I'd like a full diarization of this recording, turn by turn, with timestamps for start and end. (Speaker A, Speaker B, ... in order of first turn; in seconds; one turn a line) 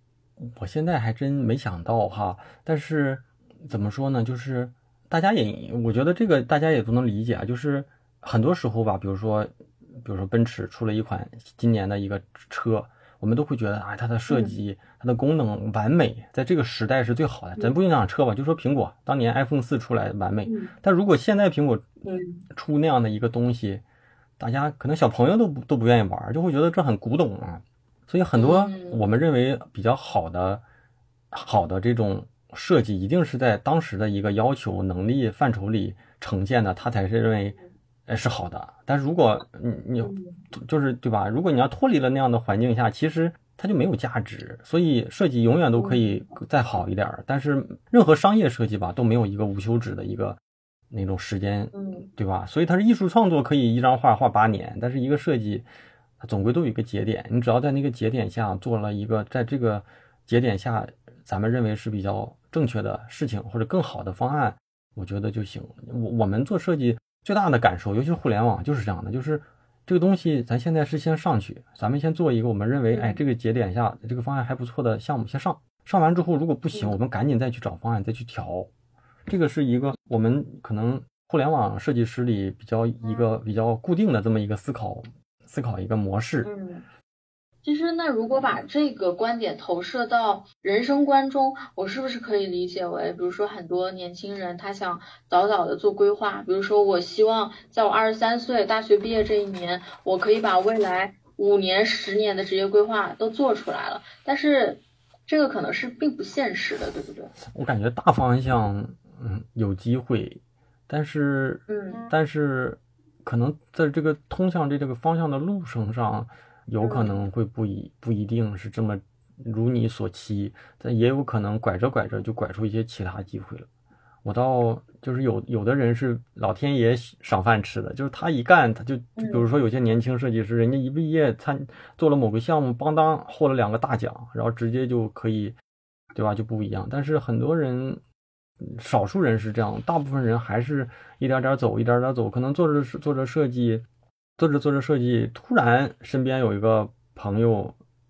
Speaker A: 0.4-21.9
Speaker B: 14.3-14.6
Speaker B: 20.5-20.7
Speaker B: 22.1-22.4
Speaker A: 22.5-23.8
Speaker A: 24.4-30.6
Speaker B: 28.4-29.0
Speaker A: 31.3-50.4
Speaker B: 40.0-40.4
Speaker B: 45.8-46.3
Speaker A: 50.9-55.7
Speaker B: 51.7-52.1
Speaker A: 56.2-78.7
Speaker B: 72.9-73.2
Speaker A: 79.3-86.5
Speaker B: 83.0-83.3
Speaker B: 86.4-86.8
Speaker B: 87.6-107.3
Speaker A: 107.4-123.7
Speaker B: 111.7-112.1
Speaker B: 116.8-117.2
Speaker A: 124.2-135.6
Speaker B: 129.2-129.5
Speaker A: 136.2-138.0
Speaker A: 138.6-143.8
Speaker A: 144.4-147.8